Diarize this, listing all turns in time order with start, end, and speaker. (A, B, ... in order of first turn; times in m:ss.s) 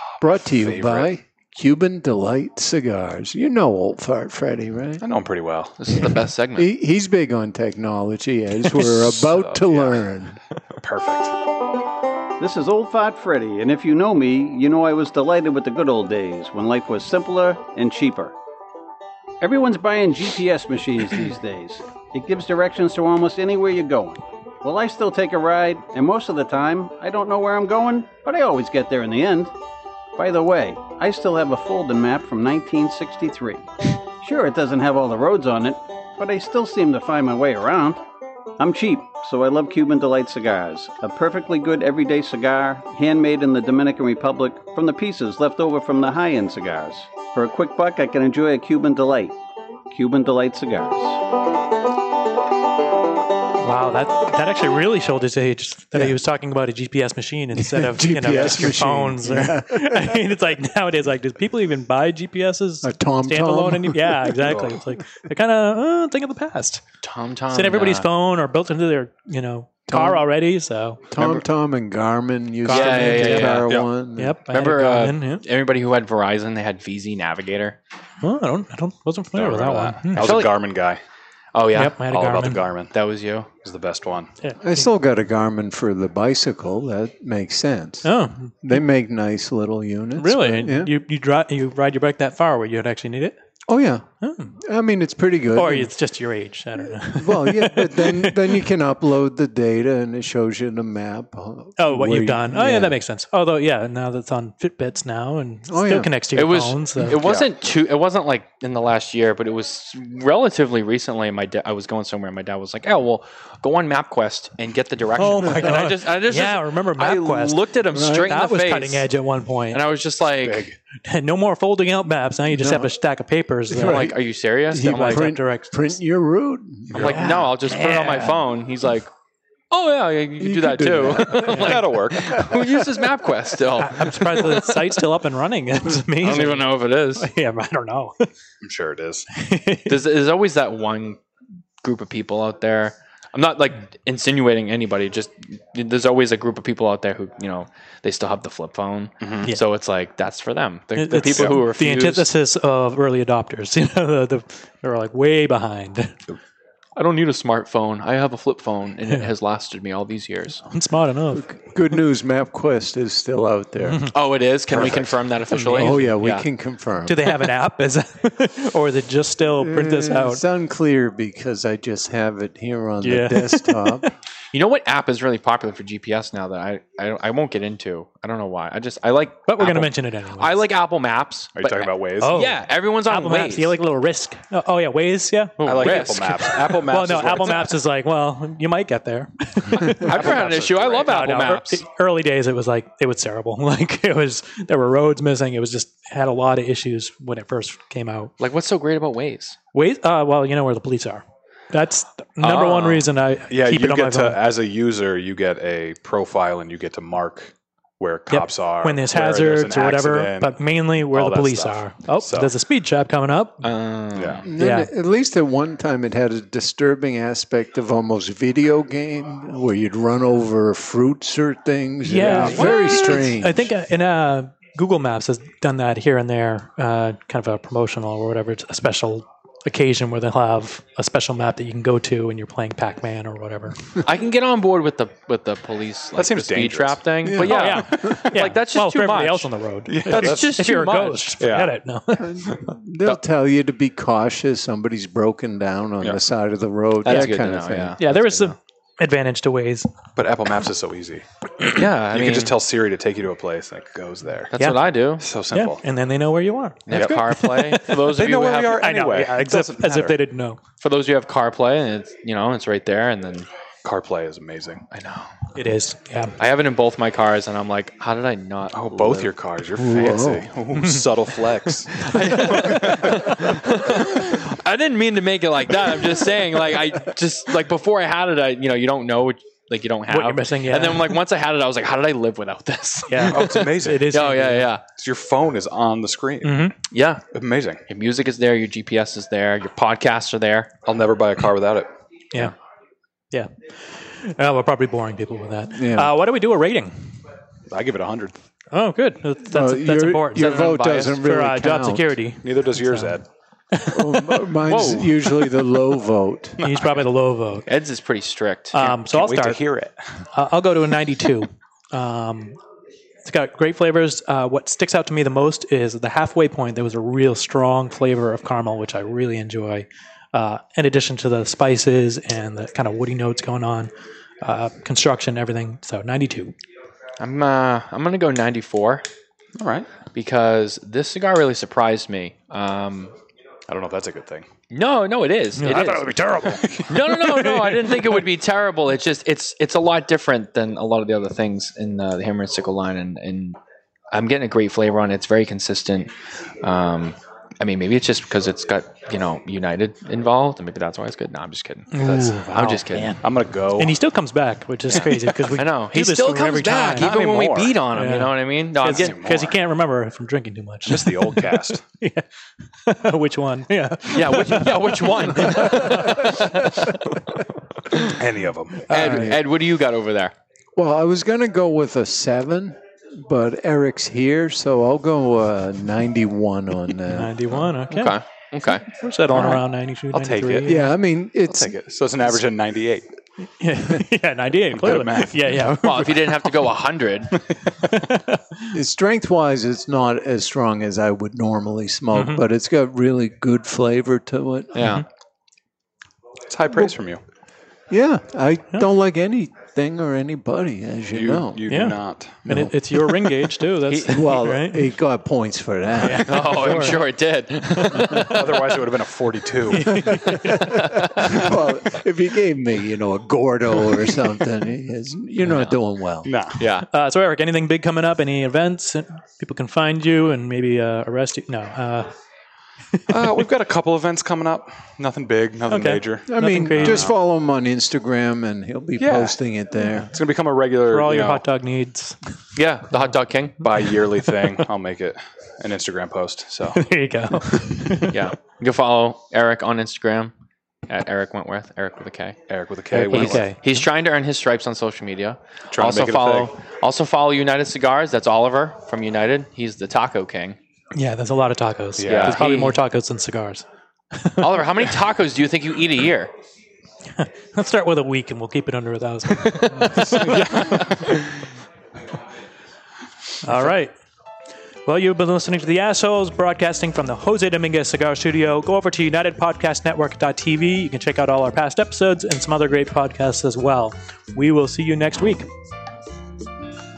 0:00.2-0:05.0 A
0:00.4-0:01.1 B
0:05.0-0:05.8 B
0:05.8-0:06.7 C
0:06.0-0:10.4 A
0:08.8-0:10.1 B
0:10.8-0:11.3 B
0:12.4-0:18.4 D
0:19.4-0:29.5 D
0:30.2-0:33.6 D
0:34.2-0:38.0 D
0:38.6-0:49.4 D
0:49.9-0:51.2 D
0:53.6-1:06.8 E
0:57.6-1:00.2 A
1:02.8-1:04.6 A
1:04.4-1:04.8 B
1:07.0-1:08.1 C
1:07.5-1:11.1 E
1:09.9-1:10.3 A
1:11.1-1:14.4 A
1:12.6-1:13.7 C
1:12.8-1:13.2 E
1:13.6-1:13.9 B
1:14.2-1:15.4 E
1:14.5-1:17.8 C
1:18.2-1:20.4 E
1:19.3-1:21.0 B
1:20.1-1:20.6 C
1:21.5-1:22.0 C
1:21.7-1:22.6 E
1:22.0-1:22.9 B
1:22.9-1:23.5 C
1:23.6-1:24.3 B
1:24.4-1:24.9 E
1:24.6-1:28.1 A
1:28.0-1:28.6 E
1:28.6-1:30.9 A
1:30.2-1:33.4 E
1:33.7-1:34.0 A
1:34.2-1:34.5 E
1:34.6-1:35.9 A
1:35.5-1:38.7 E
1:36.8-1:43.0 A
1:41.8-1:47.2 E
1:45.7-1:46.1 A
1:46.3-1:59.1 C
1:47.2-1:47.5 B
1:55.2-1:59.8 E
1:59.7-2:00.7 C
2:00.4-2:00.8 B
2:01.0-2:04.1 E
2:02.5-2:02.9 A
2:03.7-2:07.3 A
2:03.7-2:05.3 C
2:04.8-2:05.9 E
2:06.9-2:09.1 C
2:07.0-2:08.4 E
2:09.7-2:14.6 C
2:10.4-2:11.7 A
2:11.4-2:12.5 B
2:13.8-2:18.3 E
2:16.2-2:17.3 C
2:18.6-2:19.2 B
2:19.3-2:20.0 E
2:19.9-2:21.2 C
2:21.8-2:32.3 C
2:29.2-2:29.5 B
2:30.9-2:36.2 E
2:37.0-2:40.6 C
2:40.6-2:41.4 E
2:41.3-2:44.1 A
2:43.8-2:44.1 E
2:44.1-2:46.4 C
2:44.7-2:45.1 B
2:45.6-2:47.5 A
2:47.0-2:50.4 E
2:49.6-2:54.1 A
2:53.0-2:54.1 E
2:54.5-3:03.7 C
2:59.5-3:00.6 E
3:01.6-3:02.5 B
3:02.2-3:10.4 E
3:05.6-3:06.8 C
3:05.6-3:07.8 B
3:09.7-3:11.1 B
3:10.0-3:11.8 C
3:11.1-3:18.3 E
3:18.4-3:19.6 C
3:19.7-3:24.4 E
3:22.4-3:23.1 C
3:23.5-3:32.5 B
3:28.3-3:33.6 E
3:33.6-3:34.4 C
3:34.1-3:34.4 B
3:34.4-3:43.7 A
3:34.6-3:34.9 E
3:42.0-3:53.8 E
3:54.0-3:59.5 C
3:56.1-3:58.3 B
3:57.2-3:57.6 A
3:57.4-4:02.5 E
3:59.9-4:00.5 B
4:00.0-4:01.4 C
4:01.4-4:01.7 B
4:02.2-4:08.0 A
4:07.0-4:08.6 C
4:08.0-4:09.9 E
4:10.2-4:14.5 B
4:11.6-4:12.5 C
4:14.5-4:15.2 C
4:14.5-4:14.9 E
4:15.2-4:15.8 B
4:15.5-4:18.0 E
4:16.9-4:18.8 C
4:16.9-4:17.2 B
4:17.9-4:20.2 B
4:18.7-4:20.6 E
4:20.8-4:23.5 C
4:23.8-4:24.8 B
4:24.9-4:25.4 C
4:25.5-4:26.4 E
4:26.4-4:29.3 C
4:28.7-4:33.3 B
4:29.8-4:30.5 A
4:30.7-4:31.1 E
4:32.0-4:44.8 C
4:32.5-4:32.8 E
4:40.1-4:41.2 E
4:43.1-4:44.7 E
4:43.3-4:44.1 B
4:45.0-4:46.7 B
4:46.4-4:46.7 E
4:46.9-4:47.2 C
4:47.3-4:47.8 B
4:47.9-4:50.7 C
4:50.8-4:51.9 B
4:53.3-4:56.9 E
4:55.7-4:56.1 A
4:57.7-4:58.3 B
4:58.7-5:03.2 E
4:59.4-5:02.2 A
5:00.4-5:01.2 C
5:02.4-5:03.2 B
5:03.7-5:04.4 E
5:03.9-5:06.6 A
5:04.6-5:05.4 C
5:06.6-5:07.0 B
5:06.6-5:07.7 E
5:07.7-5:08.8 C
5:08.7-5:09.6 E
5:08.8-5:10.2 B
5:10.3-5:12.6 E
5:13.2-5:23.9 E
5:24.4-5:26.5 E
5:27.2-5:29.1 C
5:29.6-5:29.9 B
5:30.1-5:33.1 C
5:33.7-5:34.5 B
5:34.7-5:36.2 C
5:35.6-5:38.2 E
5:36.3-5:37.5 B
5:36.8-5:43.6 C
5:44.1-5:53.2 C
5:51.9-5:53.2 E
5:53.2-5:54.0 B
5:53.8-5:57.1 E
5:55.5-5:59.2 C
5:57.0-5:57.8 B
5:57.9-6:02.2 E
5:58.8-5:59.6 B
6:00.8-6:01.8 B
6:02.8-6:07.0 E
6:04.1-6:06.9 C
6:08.1-6:08.9 B
6:08.9-6:10.3 C
6:08.9-6:09.3 E
6:09.0-6:09.3 A
6:10.8-6:17.3 A
6:17.1-6:18.2 E
6:17.8-6:18.8 C
6:18.8-6:21.0 E
6:20.1-6:20.7 B
6:20.7-6:21.8 A
6:21.3-6:23.2 B
6:23.6-6:26.5 E
6:24.7-6:25.7 B
6:25.8-6:27.3 C
6:27.8-6:28.7 E
6:28.7-6:35.0 A
6:32.1-6:32.4 E
6:34.7-6:35.0 C
6:36.5-6:37.2 B
6:37.9-6:41.7 A
6:41.1-6:42.4 B
6:41.7-6:44.8 E
6:42.4-6:43.1 A
6:43.8-6:44.4 C
6:44.1-6:46.7 A
6:46.0-6:47.0 E
6:46.2-6:48.4 C
6:47.6-6:48.3 E
6:48.1-6:50.0 B
6:49.7-6:51.4 E
6:50.4-6:51.3 C
6:50.6-6:56.3 A
6:55.4-6:55.8 C
6:56.2-6:56.6 B
6:56.5-6:56.9 C
6:56.9-7:02.1 E
7:02.9-7:03.4 E
7:03.1-7:07.1 B
7:05.7-7:07.1 E
7:06.3-7:10.1 A
7:09.0-7:09.4 B
7:10.0-7:11.4 B
7:10.9-7:12.2 E
7:12.6-7:13.6 C
7:13.6-7:16.8 B
7:16.8-7:18.2 E
7:18.1-7:20.3 C
7:20.9-7:22.4 C
7:22.5-7:23.4 B
7:22.9-7:30.6 C
7:23.0-7:23.6 E
7:25.7-7:26.5 B
7:30.9-7:34.9 E
7:32.0-7:32.4 B
7:32.0-7:32.8 C
7:34.4-7:36.3 C
7:37.1-7:41.2 E
7:39.9-7:41.2 B
7:40.1-7:40.4 C
7:43.4-7:43.9 E
7:44.9-7:55.5 E